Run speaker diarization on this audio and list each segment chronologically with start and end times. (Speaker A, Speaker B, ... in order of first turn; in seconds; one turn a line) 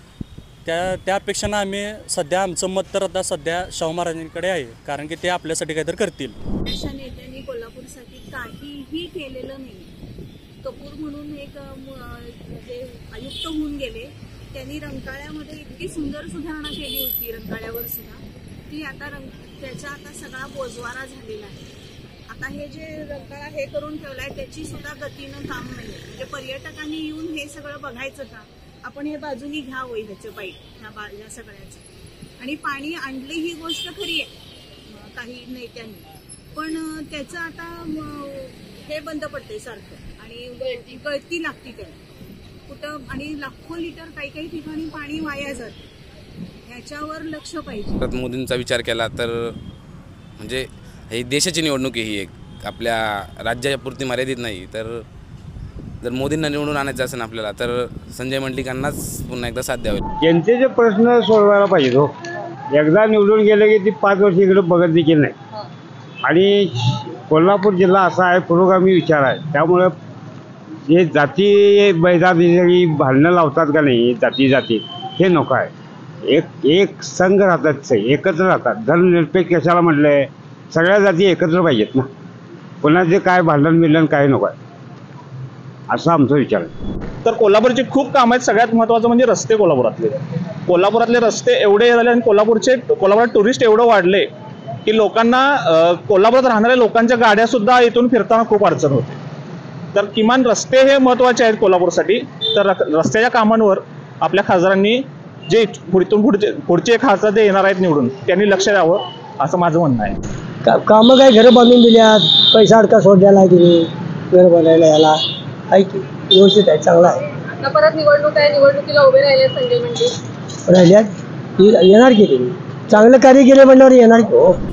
Speaker A: 0.6-6.3
Speaker B: 6.7-9.9
Speaker B: 10.6-21.7
Speaker B: 22.3-31.8
Speaker B: 32.4-34.3
Speaker B: 34.9-42.0
Speaker B: 42.7-45.9
Speaker B: 46.7-48.0
Speaker C: 48.0-49.5
Speaker C: 50.4-55.0
Speaker C: 56.0-60.0
Speaker D: 60.2-62.1
Speaker D: 62.7-65.3
Speaker D: 66.2-69.9
Speaker D: 70.9-75.7
Speaker D: 76.3-82.1
Speaker D: 82.8-84.5
Speaker D: 85.9-86.7
Speaker E: 87.2-94.3
Speaker E: 94.8-99.2
Speaker E: 99.9-110.1
Speaker F: 110.6-115.1
Speaker F: 115.7-117.2
Speaker G: 117.7-120.0
Speaker F: 120.7-121.1
Speaker F: 121.6-124.5